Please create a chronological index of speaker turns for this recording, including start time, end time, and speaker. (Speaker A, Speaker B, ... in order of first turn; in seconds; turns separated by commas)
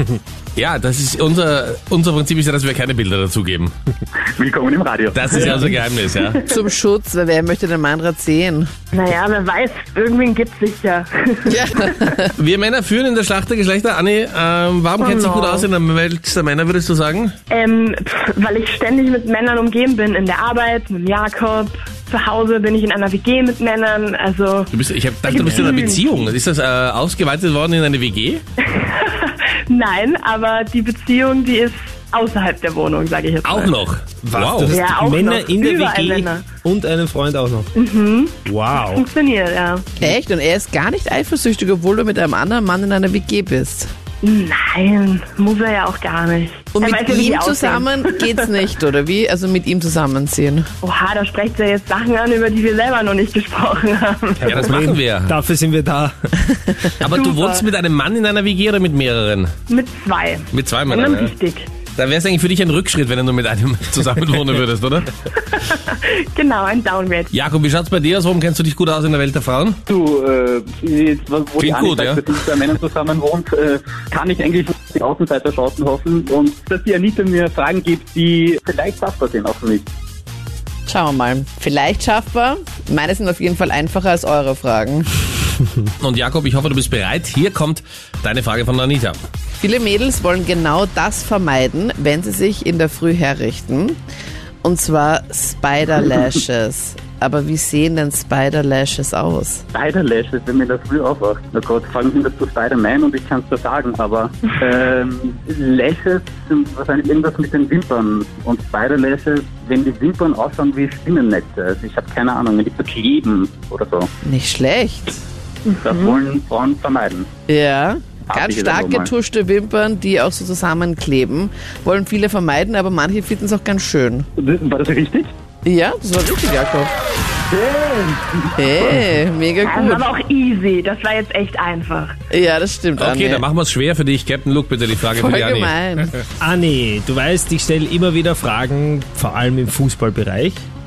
Speaker A: 0.6-3.7, Speaker B: 4.3-5.7, Speaker A: 5.1-6.4, Speaker C: 6.4-8.7, Speaker D: 8.9-12.2, Speaker C: 11.4-12.3, Speaker A: 12.3-17.3, Speaker D: 15.0-15.7, Speaker D: 17.5-24.7, Speaker A: 24.7-28.4, Speaker D: 25.2-26.2, Speaker D: 28.6-33.8, Speaker A: 33.4-34.8, Speaker E: 34.2-37.7, Speaker D: 34.7-36.4, Speaker D: 37.7-39.9, Speaker E: 38.4-39.0, Speaker C: 40.0-43.9, Speaker D: 44.2-48.5, Speaker C: 46.8-50.6, Speaker D: 50.8-54.6, Speaker E: 54.4-56.8, Speaker A: 54.4-55.3, Speaker A: 57.0-59.5, Speaker D: 57.1-57.6, Speaker D: 59.7-61.7, Speaker A: 60.5-61.3, Speaker A: 62.0-65.1, Speaker D: 65.5-67.3, Speaker A: 67.3-69.8, Speaker B: 69.9-79.9, Speaker A: 71.6-72.2, Speaker C: 80.9-85.1, Speaker A: 86.0-89.2, Speaker C: 89.6-94.0, Speaker C: 94.6-99.6, Speaker B: 99.7-114.1, Speaker C: 114.2-115.2, Speaker B: 115.8-117.3, Speaker C: 117.5-124.3, Speaker B: 118.3-119.1, Speaker B: 124.4-125.3, Speaker C: 125.6-126.9, Speaker B: 127.5-128.7, Speaker C: 128.6-130.0, Speaker D: 129.6-132.2, Speaker C: 132.3-133.4, Speaker A: 133.0-135.7, Speaker C: 135.1-136.1, Speaker E: 136.4-140.6